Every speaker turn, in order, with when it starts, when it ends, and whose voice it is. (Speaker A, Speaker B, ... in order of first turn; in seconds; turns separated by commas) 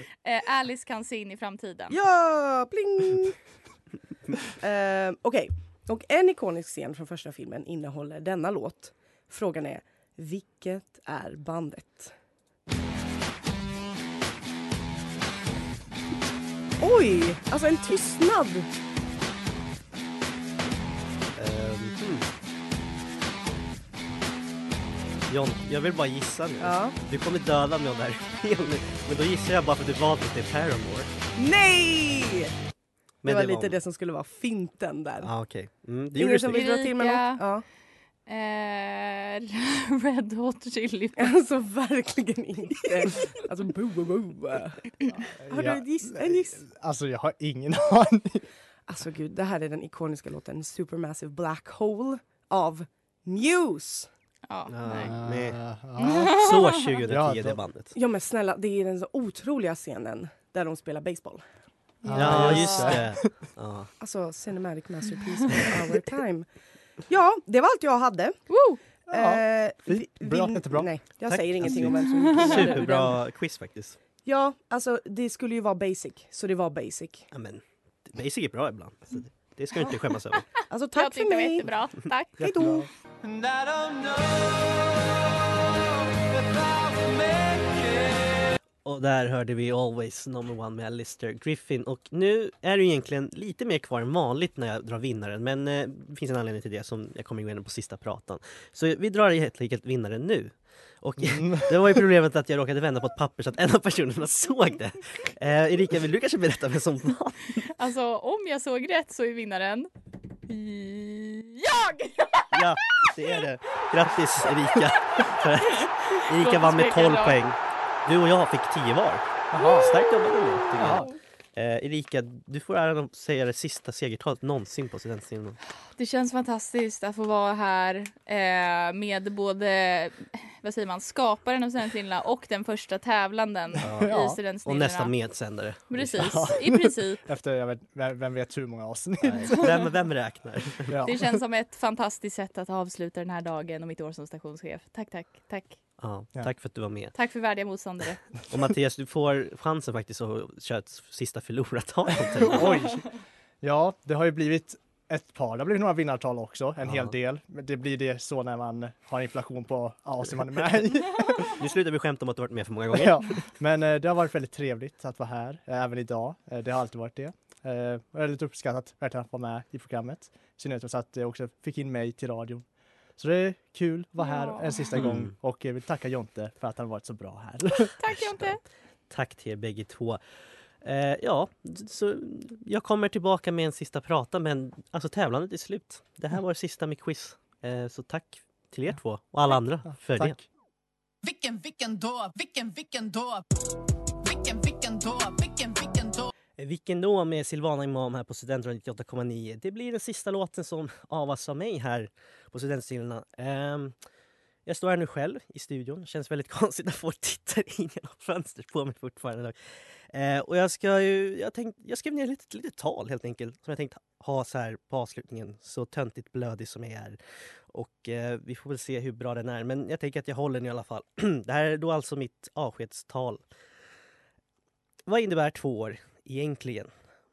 Speaker A: 0.2-2.0, Speaker B: 1.9-3.4, Speaker B: 4.4-12.1, Speaker B: 16.8-18.7, Speaker C: 21.4-22.3, Speaker C: 25.3-31.1, Speaker B: 26.6-26.9, Speaker B: 31.4-32.5, Speaker C: 33.2-33.8, Speaker B: 33.2-35.3, Speaker C: 35.2-36.7, Speaker B: 36.1-37.6, Speaker A: 36.5-37.4, Speaker A: 38.2-41.4, Speaker B: 41.2-46.6, Speaker D: 45.2-48.5, Speaker B: 48.9-54.1, Speaker A: 54.5-55.2, Speaker C: 54.7-55.6, Speaker D: 55.0-56.4, Speaker A: 56.0-56.9, Speaker C: 56.2-57.9, Speaker D: 57.1-57.6, Speaker B: 57.9-61.4, Speaker A: 62.0-62.9, Speaker D: 62.0-63.4, Speaker C: 62.1-63.9, Speaker B: 64.0-66.5, Speaker B: 67.1-68.4, Speaker A: 68.5-68.8, Speaker D: 69.1-70.9, Speaker B: 69.1-73.2, Speaker C: 71.2-74.0, Speaker D: 71.6-71.9, Speaker A: 72.2-72.7, Speaker B: 74.2-77.3, Speaker C: 77.3-80.5, Speaker B: 80.6-81.7, Speaker A: 80.9-82.4, Speaker B: 82.4-82.9, Speaker D: 82.4-83.9, Speaker C: 88.8-107.7, Speaker D: 101.2-102.0, Speaker A: 107.7-109.9, Speaker A: 110.5-113.2, Speaker C: 112.5-125.6, Speaker A: 115.2-117.4, Speaker D: 119.5-119.9, Speaker A: 119.6-119.9, Speaker D: 120.8-121.1, Speaker A: 120.8-121.1, Speaker A: 125.9-135.1, Speaker C: 133.8-136.6, Speaker D: 133.9-134.4, Speaker A: 135.9-137.2, Speaker D: 136.1-139.9, Speaker C: 139.2-141.0, Speaker D: 140.9-141.2, Speaker A: 141.0-145.8, Speaker C: 146.0-147.1, Speaker A: 147.1-148.2, Speaker C: 148.5-152.8, Speaker D: 152.3-153.1, Speaker D: 153.6-161.6, Speaker C: 161.5-163.4, Speaker D: 162.9-172.6, Speaker D: 173.2-178.5, Speaker A: 174.2-175.0, Speaker C: 175.0-175.3, Speaker A: 177.9-178.6, Speaker C: 179.1-180.2, Speaker C: 180.8-190.4, Speaker D: 190.1-190.4, Speaker E: 191.2-193.4, Speaker E: 194.2-196.3, Speaker C: 196.6-203.9, Speaker C: 204.7-209.6, Speaker C: 210.1-217.2, Speaker C: 217.7-223.4, Speaker C: 225.1-226.9